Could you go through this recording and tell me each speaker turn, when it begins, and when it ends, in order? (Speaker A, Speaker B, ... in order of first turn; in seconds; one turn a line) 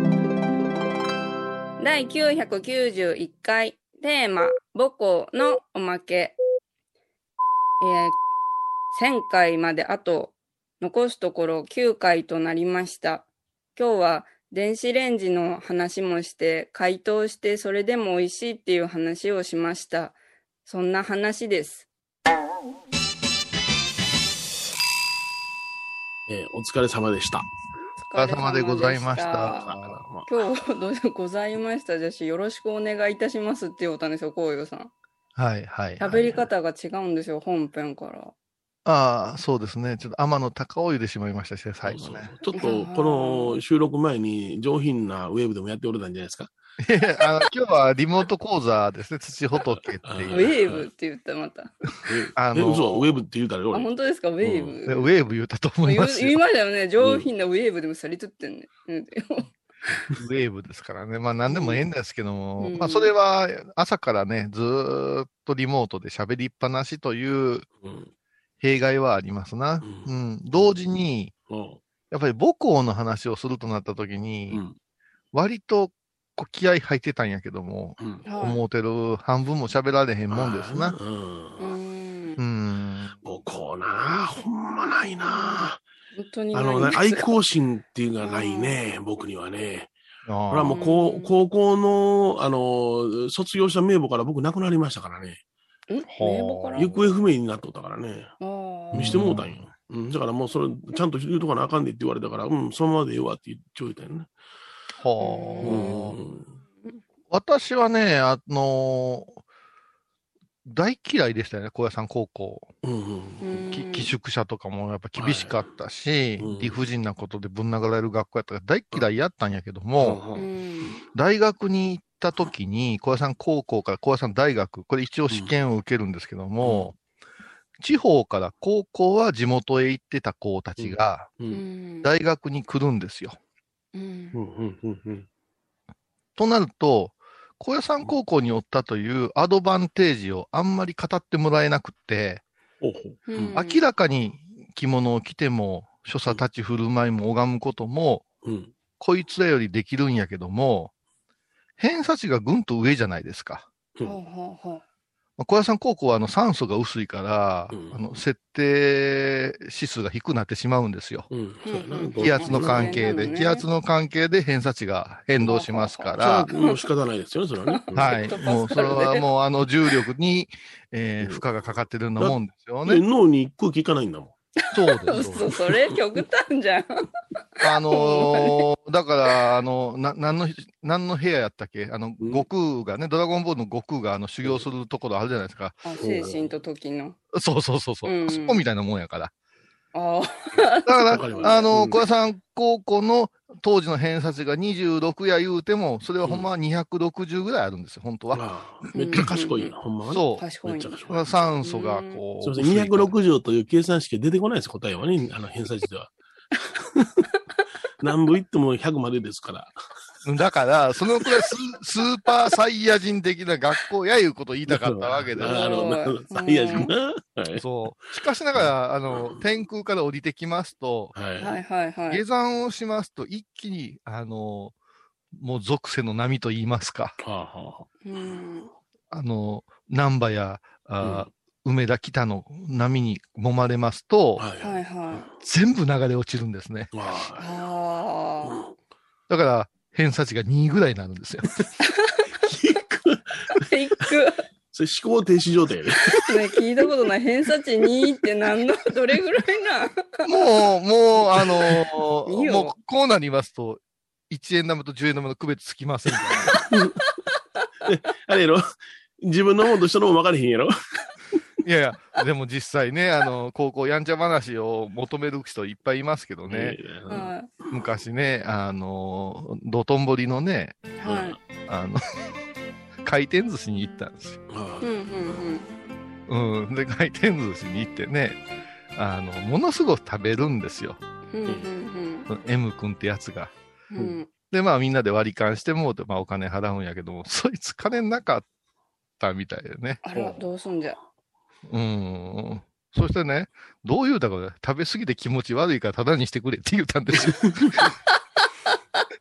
Speaker A: 1.8-6.4
Speaker A: 7.8-8.2
Speaker A: 8.9-20.1
Speaker A: 20.6-21.9
Speaker B: 26.3-27.4
Speaker A: 28.1-29.7
Speaker C: 28.1-30.0
Speaker B: 29.5-30.3
Speaker A: 30.3-34.9
Speaker C: 35.4-36.3
Speaker A: 36.0-38.3
Speaker C: 38.8-42.3
Speaker B: 41.8-46.5
Speaker A: 42.5-43.6
Speaker C: 46.8-50.5
Speaker B: 50.0-50.9
Speaker A: 50.3-51.7
Speaker B: 52.1-53.9
Speaker C: 52.4-53.2
Speaker A: 53.7-55.1
Speaker B: 54.4-54.7
Speaker C: 54.9-56.4
Speaker A: 55.8-60.0
Speaker B: 57.0-57.3
Speaker C: 60.2-67.7
Speaker A: 61.5-61.8
Speaker A: 62.6-63.1
Speaker B: 67.8-68.1
Speaker C: 68.6-71.3
Speaker B: 69.8-70.1
Speaker B: 71.5-71.8
Speaker C: 72.1-74.6
Speaker B: 74.5-74.8
Speaker C: 75.3-81.0
Speaker B: 78.0-78.2
Speaker A: 78.2-78.6
Speaker B: 80.3-81.7
Speaker A: 81.6-82.4
Speaker C: 82.4-83.2
Speaker B: 83.2-85.8
Speaker A: 86.1-87.3
Speaker B: 86.5-89.9
Speaker A: 88.2-88.8
Speaker C: 90.2-90.8
Speaker B: 90.5-95.4
Speaker A: 90.7-91.3
Speaker A: 95.9-96.9
Speaker C: 96.1-97.1
Speaker B: 96.8-98.3
Speaker A: 98.4-99.2
Speaker B: 98.9-104.3
Speaker C: 98.9-99.5
Speaker C: 105.0-106.2
Speaker A: 105.2-106.0
Speaker B: 105.6-106.5
Speaker C: 107.3-109.4
Speaker C: 110.6-112.7
Speaker B: 112.8-113.6
Speaker A: 113.4-114.1
Speaker C: 113.7-120.2
Speaker B: 115.2-115.6
Speaker B: 116.4-116.8
Speaker B: 120.0-121.0
Speaker A: 120.3-121.0
Speaker C: 121.1-127.0
Speaker B: 126.6-126.9
Speaker C: 127.8-131.3
Speaker B: 130.8-131.6
Speaker A: 131.5-132.1
Speaker C: 132.0-133.4
Speaker A: 133.9-134.4
Speaker B: 134.3-135.2
Speaker C: 136.4-142.4
Speaker B: 142.8-143.6
Speaker A: 143.3-143.8
Speaker C: 143.5-148.3
Speaker B: 148.4-148.7
Speaker C: 149.0-150.9
Speaker C: 151.8-153.7
Speaker A: 154.0-154.8
Speaker C: 155.4-161.3
Speaker B: 157.7-158.1
Speaker B: 161.3-163.2
Speaker A: 161.7-163.6
Speaker C: 162.2-166.5
Speaker A: 165.4-166.9
Speaker B: 166.2-168.3
Speaker A: 167.7-169.3
Speaker C: 167.9-173.0
Speaker B: 172.2-174.3
Speaker A: 174.6-177.1
Speaker C: 174.7-175.5
Speaker B: 175.2-175.9
Speaker C: 177.6-185.8
Speaker A: 177.9-178.7
Speaker B: 182.2-182.4
Speaker A: 185.8-187.2
Speaker B: 186.0-186.5
Speaker C: 187.3-189.3
Speaker A: 188.0-188.6
Speaker A: 189.9-191.7
Speaker C: 190.8-198.4
Speaker B: 191.1-192.0
Speaker B: 198.3-201.2
Speaker A: 198.9-199.7
Speaker C: 200.1-200.5
Speaker A: 200.4-200.9
Speaker C: 201.1-203.1
Speaker A: 201.6-202.2
Speaker B: 202.4-206.1
Speaker B: 206.8-207.2
Speaker B: 208.0-209.7
Speaker C: 210.2-215.8
Speaker B: 214.7-217.6
Speaker A: 215.4-216.9
Speaker C: 217.6-221.1
Speaker B: 218.5-219.4
Speaker B: 221.1-221.5
Speaker A: 221.4-222.2
Speaker C: 222.1-224.7
Speaker C: 225.3-227.2
Speaker B: 227.2-227.9
Speaker A: 228.0-228.7
Speaker C: 229.1-234.4
Speaker B: 231.0-231.3
Speaker B: 234.4-235.2
Speaker A: 234.6-235.3
Speaker C: 235.4-236.9
Speaker B: 236.9-237.5
Speaker A: 237.4-238.5
Speaker B: 238.4-238.7
Speaker C: 239.3-241.5
Speaker A: 241.8-242.2
Speaker B: 242.4-243.6
Speaker A: 243.5-244.4
Speaker B: 244.7-246.4
Speaker A: 246.2-250.1
Speaker C: 250.2-256.6
Speaker A: 252.3-252.8
Speaker B: 256.6-256.9
Speaker B: 257.8-258.6
Speaker B: 259.2-260.7
Speaker C: 261.6-266.8
Speaker B: 266.5-267.8
Speaker A: 267.1-267.5
Speaker C: 267.7-270.9
Speaker A: 271.0-271.4
Speaker B: 271.0-271.4
Speaker C: 271.6-272.0
Speaker C: 273.0-274.4
Speaker B: 274.5-275.4
Speaker A: 274.8-275.7
Speaker C: 276.3-278.4
Speaker C: 278.9-281.0
Speaker A: 281.3-282.3
Speaker B: 281.4-281.7
Speaker C: 282.3-283.5
Speaker A: 283.9-284.3
Speaker C: 284.5-288.4
Speaker C: 289.2-290.0
Speaker A: 290.0-291.0
Speaker B: 290.1-290.4
Speaker C: 291.7-297.8
Speaker B: 297.2-297.9